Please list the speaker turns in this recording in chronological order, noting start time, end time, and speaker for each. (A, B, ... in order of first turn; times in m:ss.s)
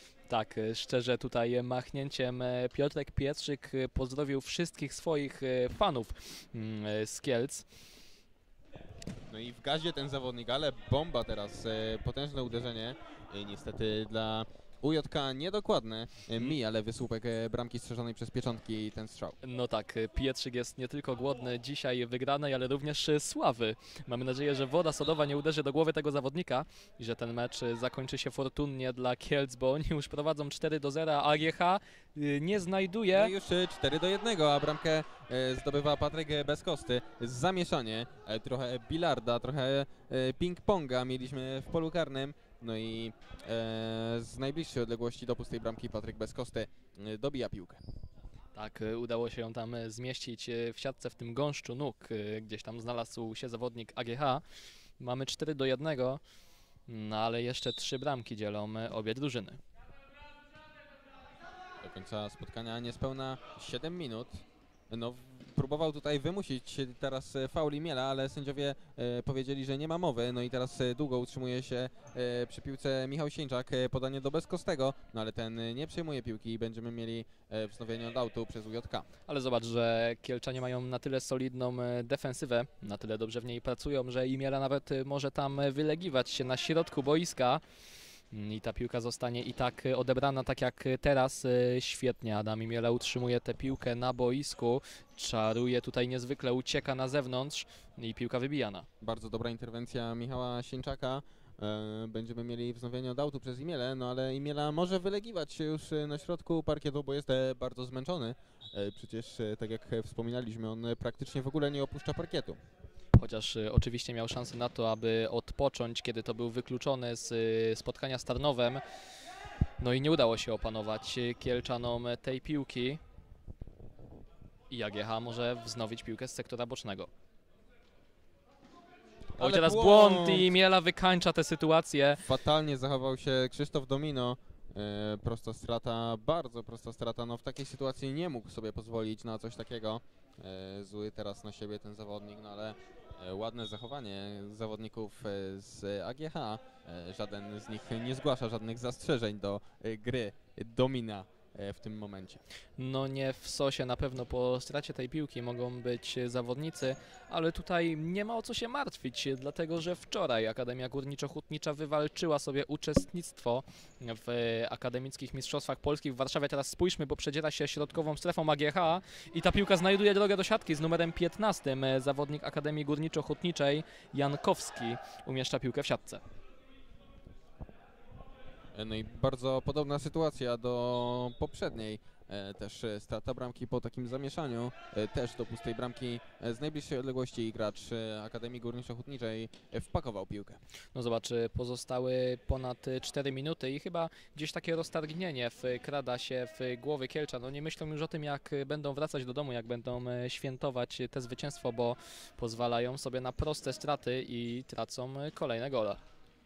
0:00.3-0:07.7 A
0:09.3-0:19.4 B
0:19.4-0:33.3 A
0:33.1-0:47.8 B
0:48.5-0:54.4 A
0:55.0-0:56.2 A
0:56.9-0:59.6 A
1:01.8-1:19.1 B
1:19.3-1:27.6 A
1:28.3-1:38.9 A
1:39.0-1:52.6 B
1:53.2-1:58.8 A
1:59.8-2:03.0 A
2:04.7-2:07.1 A
2:09.4-2:10.5 B
2:09.4-2:12.2 A
2:12.2-2:32.4 B
2:32.8-2:56.2 A
2:58.7-3:10.6 B
3:10.9-3:26.0 A